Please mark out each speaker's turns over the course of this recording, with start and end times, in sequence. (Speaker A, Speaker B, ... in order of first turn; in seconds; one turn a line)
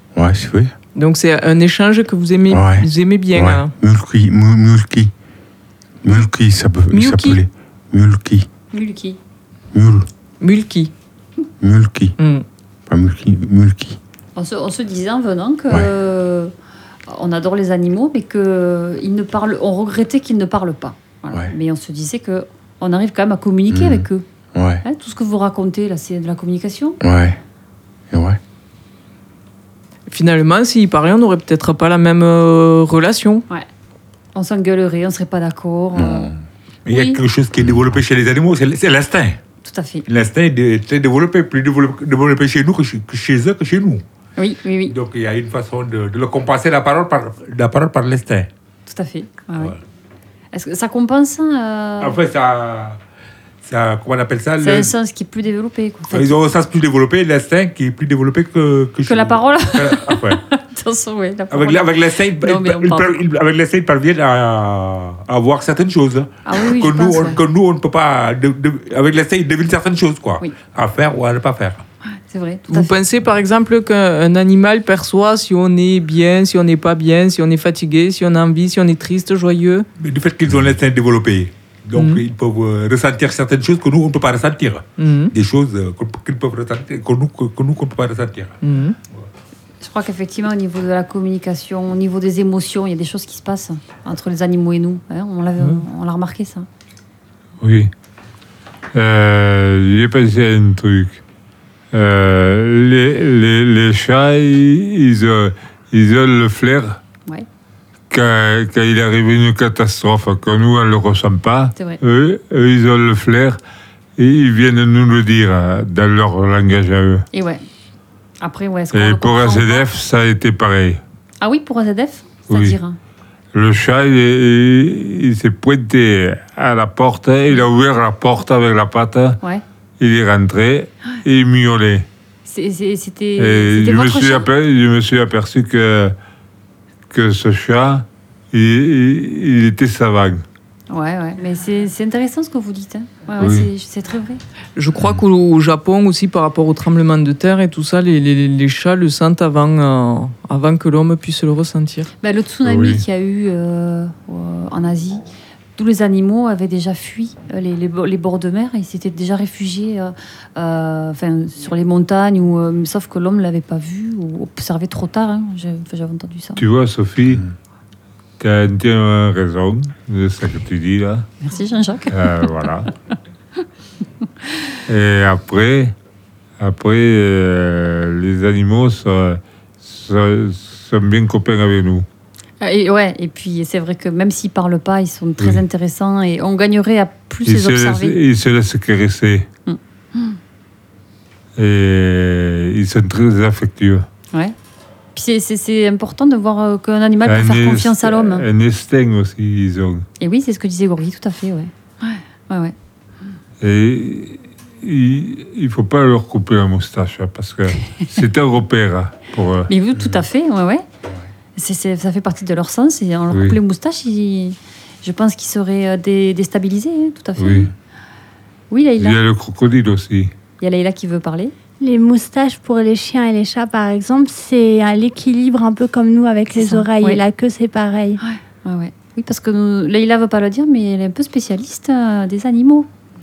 Speaker A: 0.1-0.7
Speaker B: 1.0-3.7
Speaker A: 2.5-5.1
Speaker A: 6.0-8.5
Speaker B: 6.9-7.4
Speaker C: 8.7-9.2
Speaker A: 9.7-10.1
Speaker B: 10.4-10.9
Speaker A: 11.6-12.2
Speaker B: 12.2-12.4
Speaker A: 12.9-14.0
Speaker C: 14.4-16.5
Speaker C: 17.1-24.2
Speaker A: 23.7-24.8
Speaker C: 24.8-27.0
Speaker A: 27.0-27.4
Speaker A: 28.1-28.4
Speaker B: 30.1-33.5
Speaker C: 34.4-36.3
Speaker A: 36.0-36.4
Speaker D: 36.9-39.4
Speaker C: 36.9-37.2
Speaker C: 39.6-40.1
Speaker D: 40.1-44.0
Speaker C: 44.4-45.0
Speaker D: 44.9-48.5
Speaker C: 48.9-49.8
Speaker C: 50.5-52.2
Speaker D: 52.0-53.0
Speaker D: 53.6-54.9
Speaker C: 54.6-56.3
Speaker D: 56.1-60.4
Speaker C: 59.1-63.2
Speaker D: 61.5-71.8
Speaker C: 66.5-67.4
Speaker C: 72.1-73.0
Speaker B: 72.7-79.9
Speaker D: 80.0-88.6
Speaker B: 81.9-82.2
Speaker B: 85.0-85.3
Speaker B: 88.6-89.0
Speaker C: 89.8-96.7
Speaker E: 97.6-97.9
Speaker E: 98.9-101.2
Speaker E: 101.9-107.0
Speaker E: 108.1-113.6
Speaker E: 114.2-117.2
Speaker C: 117.3-117.7
Speaker C: 118.4-119.9
Speaker E: 118.9-121.0
Speaker C: 121.4-123.0
Speaker E: 122.5-122.8
Speaker E: 123.5-129.4
Speaker E: 130.0-132.1
Speaker C: 132.5-134.5
Speaker E: 133.4-136.2
Speaker E: 137.1-140.4
Speaker C: 140.9-144.4
Speaker E: 143.4-143.7
Speaker B: 144.8-152.1
Speaker C: 152.2-155.2
Speaker E: 152.7-153.0
Speaker C: 155.8-166.6
Speaker E: 166.6-167.5
Speaker E: 168.4-171.3
Speaker C: 171.4-172.7
Speaker E: 172.1-172.9
Speaker E: 174.9-175.9
Speaker E: 176.6-182.1
Speaker C: 182.6-188.2
Speaker E: 187.5-189.5
Speaker C: 189.7-190.4
Speaker E: 191.6-194.1
Speaker C: 195.1-198.4
Speaker E: 197.2-200.1
Speaker C: 200.2-202.8
Speaker E: 203.6-209.7
Speaker C: 209.7-210.8
Speaker C: 211.6-217.7
Speaker E: 213.3-213.6
Speaker E: 217.4-217.7
Speaker C: 218.7-219.2
Speaker E: 219.0-220.3
Speaker C: 220.6-221.5
Speaker F: 221.8-228.2
Speaker C: 226.6-227.2
Speaker C: 228.2-232.9